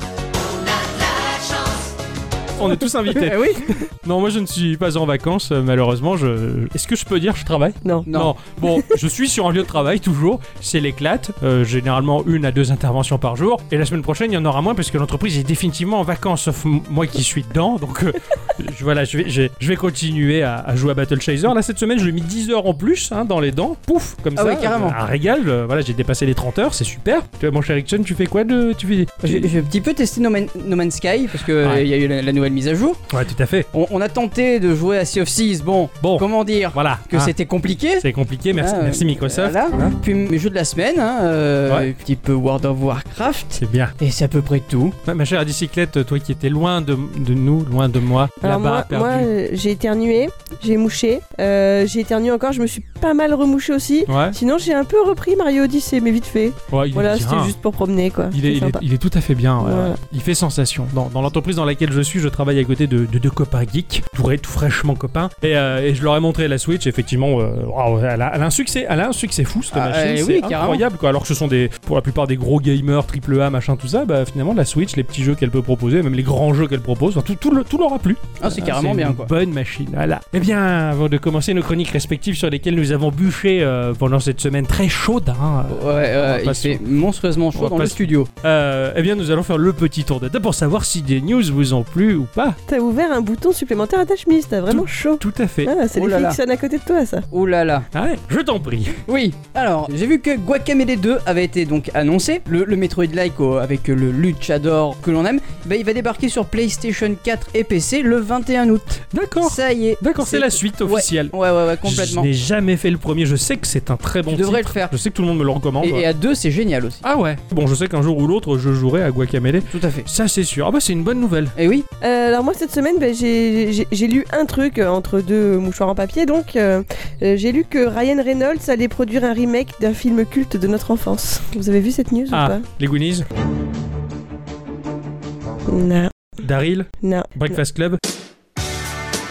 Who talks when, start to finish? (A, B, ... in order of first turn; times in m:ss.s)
0:02.6-0:29.5 A
0:03.1-0:03.7 B
0:07.8-0:08.1 C
0:08.1-0:08.3 B
0:08.6-0:09.0 C
0:24.4-0:25.0 B
0:29.2-0:33.0 B
0:31.6-0:31.8 A
0:33.1-0:33.7 A
0:33.7-0:45.0 B
0:36.0-0:37.3 A
0:38.0-0:39.9 A
0:43.6-0:43.9 A
0:45.1-0:49.3 A
0:48.4-0:58.8 C
0:54.1-0:54.4 A
0:56.7-0:57.5 A
0:58.3-1:26.8 A
0:59.6-1:00.0 C
1:09.7-1:10.8 B
1:18.4-1:19.3 B
1:25.7-1:28.3 B
1:27.6-1:32.6 A
1:32.7-1:37.3 C
1:34.7-1:35.7 A
1:36.0-1:36.4 B
1:37.3-1:37.9 B
1:37.9-1:39.0 A
1:39.1-1:52.3 B
1:49.1-1:56.1 A
1:54.3-1:55.0 B
1:55.8-1:57.0 B
1:57.0-2:01.5 A
1:59.7-2:00.1 B
2:01.6-2:01.9 B
2:02.0-2:12.6 C
2:12.3-2:13.3 A
2:15.7-2:16.1 C
2:16.4-2:18.0 A
2:17.0-2:17.6 C